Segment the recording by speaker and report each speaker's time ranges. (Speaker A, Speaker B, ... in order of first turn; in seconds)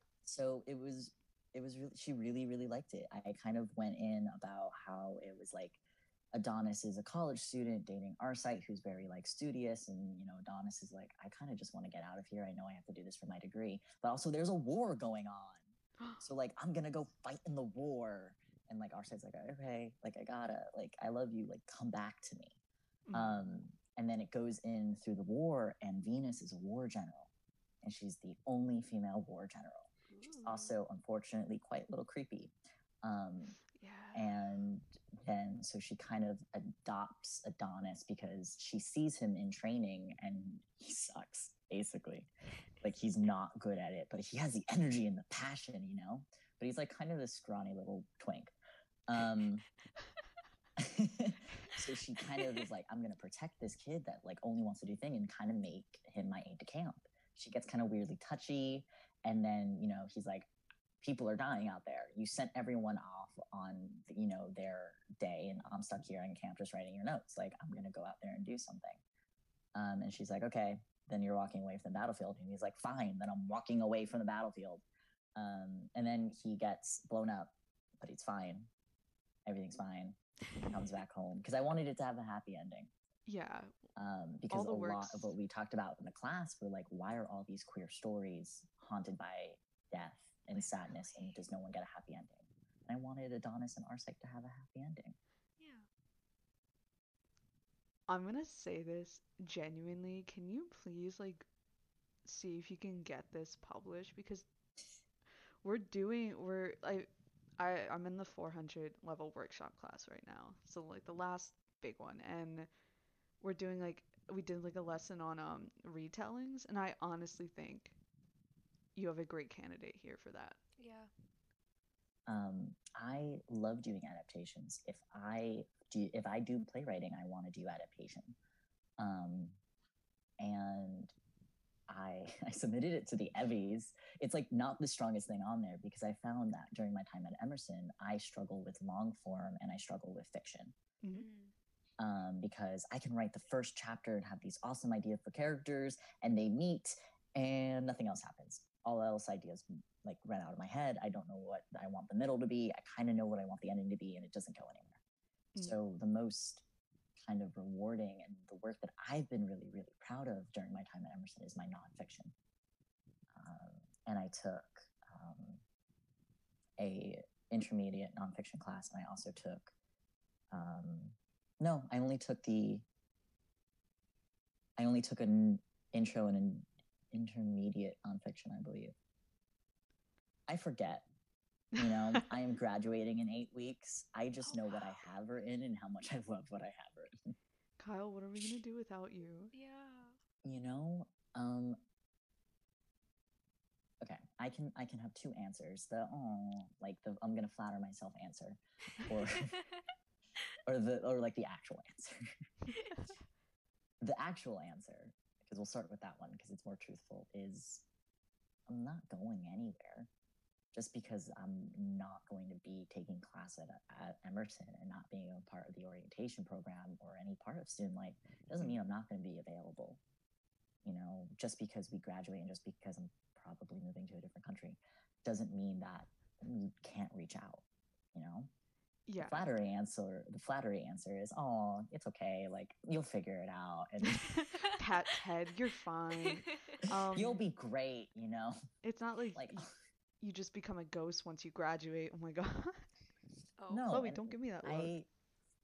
Speaker A: 0.2-5.8, 6.3-15.7, 16.2-22.6, 23.1-27.3, 27.8-29.9, 30.4-33.6, 34.1-42.3, 42.8-48.5, 49.1-49.6, 50.8-60.5, 61.0-69.0, 69.8-74.8, 75.4-78.7, 79.5-82.9, 84.0-95.2, 122.3-128.4, 129.0-129.6, 130.4-131.1, 131.9-140.8, 142.0-155.0, 155.6-156.7, 157.2-162.3, 163.3-165.6, 166.8-169.7, 170.5-172.9, 174.8-178.9, 180.5-181.1, 181.8-187.3, 190.4-191.8, 194.0-199.6, 200.7-202.3, 204.0-207.9, 208.7-210.1, 210.7-220.0, 220.8-228.5, 229.2-234.3, 237.1-238.6, 239.3-239.7, 243.7-245.1
Speaker B: 16.0-16.2, 23.1-23.4, 30.1-30.7, 33.7-34.3, 83.3-83.7, 84.5-85.3, 98.1-101.5, 102.2-104.5, 105.6-107.1, 107.6-112.7, 113.4-118.0, 119.0-120.6, 181.8-182.3, 187.8-189.5, 229.1-229.5, 234.0-237.4, 238.8-239.7, 240.2-242.9, 243.9-244.9
Speaker C: 95.6-95.9, 120.8-121.1, 141.1-141.5, 184.4-184.8, 189.5-190.2, 202.7-203.1, 234.5-234.8, 236.2-236.8, 243.6-243.9